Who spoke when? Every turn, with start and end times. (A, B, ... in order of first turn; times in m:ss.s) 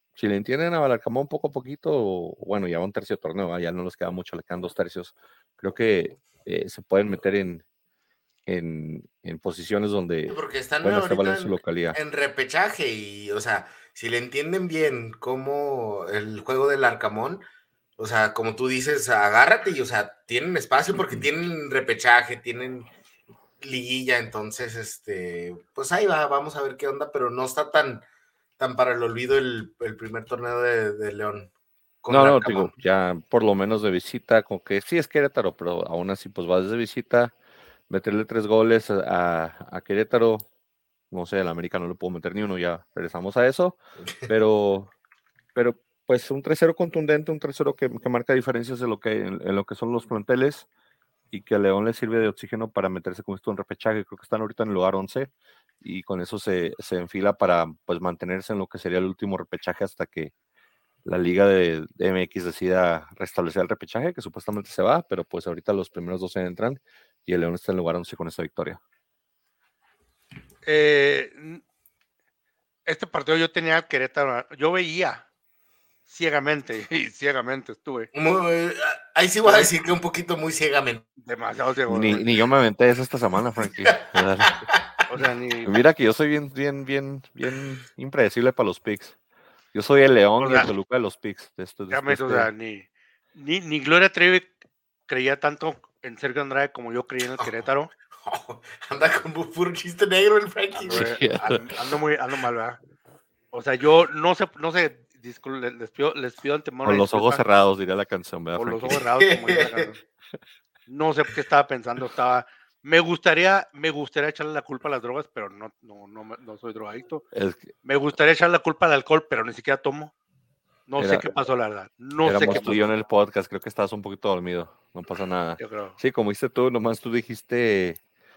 0:00.2-0:07.6 A
0:08.5-0:12.0 A
0:10.3-0:17.4 B
0:18.0-0:22.9 B
0:23.6-0:28.0 B
0:28.6-0:31.5 B
0:32.0-0:32.7 B
0:32.1-0:37.3 A
0:37.9-0:40.5 A
0:41.1-0:44.9 A
0:45.5-0:50.7 A
0:51.3-1:00.3 A
1:01.0-1:08.8 A
1:10.7-1:11.6 C
1:12.8-1:15.2 C
1:16.1-1:18.1 C
1:18.1-1:21.1 B
1:19.4-1:19.7 C
1:21.2-1:22.2 C
1:21.9-1:24.7 A
1:25.1-1:25.8 C
1:25.2-1:29.2 A
1:29.7-1:32.5 A
1:30.4-1:30.7 C
1:31.9-1:34.5 C
1:35.1-1:37.9 C
1:38.2-1:41.1 B
1:40.8-1:42.8 C
1:40.9-1:41.7 A
1:43.5-1:47.4 C
1:46.8-1:49.0 A
1:48.6-1:50.0 C
1:49.2-1:49.9 B
1:50.9-1:57.2 C
1:57.3-1:57.7 A
1:57.8-2:00.1 C
2:00.9-2:02.8 C
2:01.0-2:01.2 A
2:02.2-2:08.0 A
2:05.6-2:06.0 C